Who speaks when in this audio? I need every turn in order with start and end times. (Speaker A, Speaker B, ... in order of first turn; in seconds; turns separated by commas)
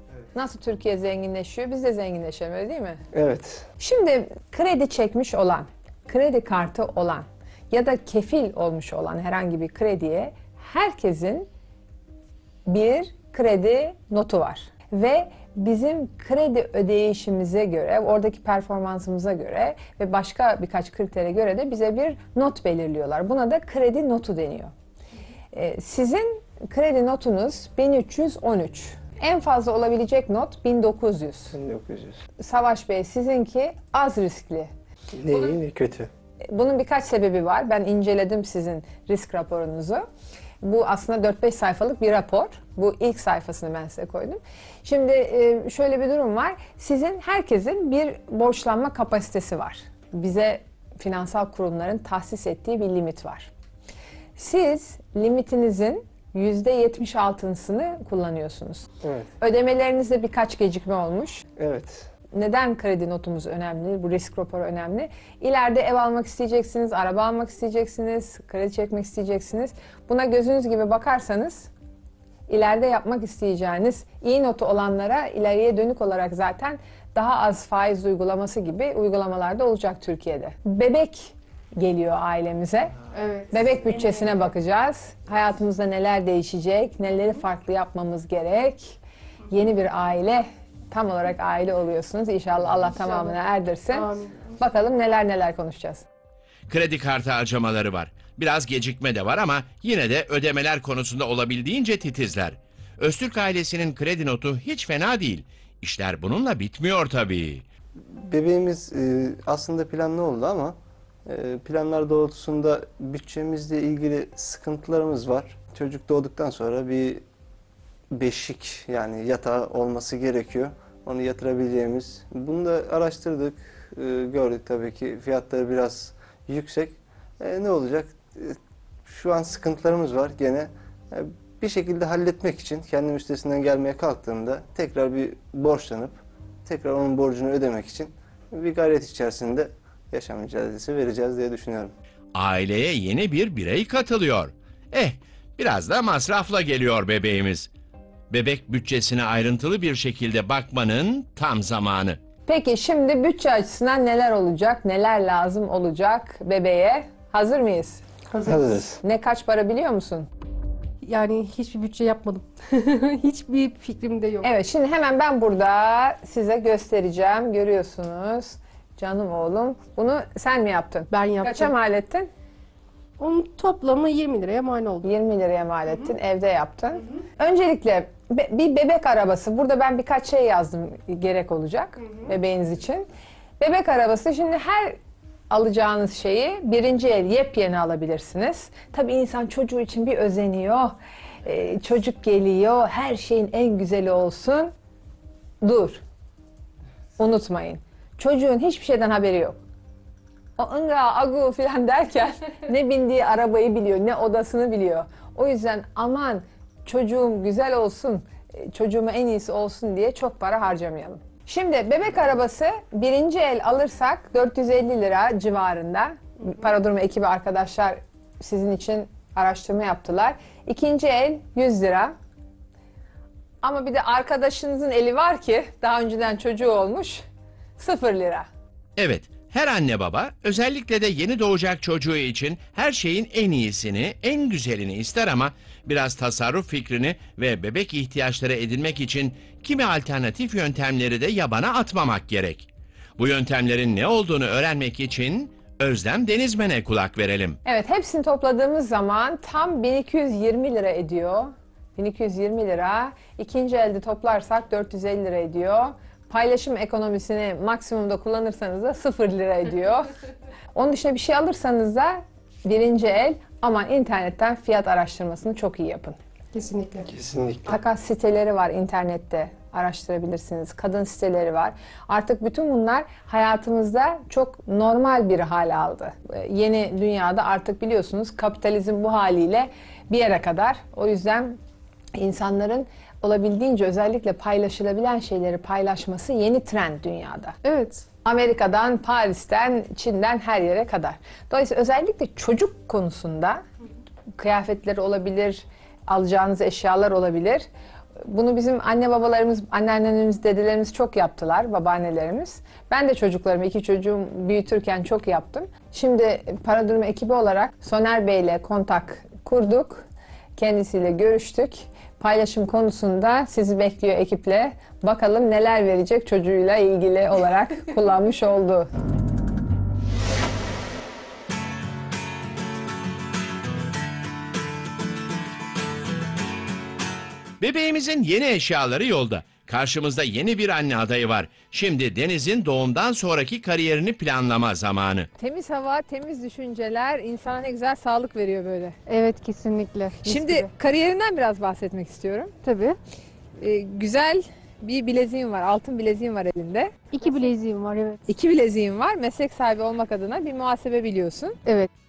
Speaker A: 0.3-3.0, Speaker B: 3.1-3.7, Speaker A: 3.8-11.5, Speaker A: 12.7-24.7, Speaker A: 25.5-31.6, Speaker B: 31.5-32.2, Speaker A: 32.4-34.7, Speaker B: 35.1-36.1, Speaker A: 36.5-40.0, Speaker A: 40.6-53.5, Speaker A: 54.4-58.9, Speaker B: 59.0-59.3, Speaker A: 59.4-61.4, Speaker B: 61.6-62.1, Speaker A: 62.3-71.7, Speaker A: 72.5-82.9, Speaker C: 83.1-84.1, Speaker A: 83.5-89.0, Speaker A: 89.5-94.1, Speaker C: 93.0-93.3, Speaker C: 93.9-94.4, Speaker A: 94.6-96.0, Speaker D: 96.7-107.7, Speaker B: 108.0-117.2, Speaker B: 118.1-141.9, Speaker D: 142.3-147.7, Speaker D: 148.3-152.2, Speaker A: 152.5-158.0, Speaker C: 158.3-158.6, Speaker B: 158.4-159.0, Speaker A: 159.0-160.3, Speaker C: 161.0-164.5, Speaker A: 164.4-172.3, Speaker C: 171.1-171.7, Speaker C: 173.2-175.1, Speaker A: 175.0-183.1, Speaker A: 183.6-185.0, Speaker A: 185.5-194.7, Speaker A: 195.6-196.0, Speaker A: 197.2-199.6, Speaker A: 200.6-222.1, Speaker A: 223.6-227.2, Speaker A: 227.8-228.5, Speaker D: 229.0-247.6, Speaker A: 247.6-260.1, Speaker A: 260.7-266.2, Speaker C: 266.5-267.1, Speaker B: 267.1-267.7, Speaker A: 267.7-281.6, Speaker A: 282.1-287.6, Speaker C: 287.6-288.1, Speaker A: 288.2-293.6, Speaker A: 294.4-297.7, Speaker A: 298.2-310.1, Speaker A: 310.6-318.9, Speaker D: 327.6-335.3, Speaker A: 335.4-339.0, Speaker C: 339.1-340.7, Speaker A: 340.2-342.5, Speaker C: 342.6-343.0, Speaker A: 343.6-347.5, Speaker C: 347.1-348.3, Speaker A: 348.3-351.6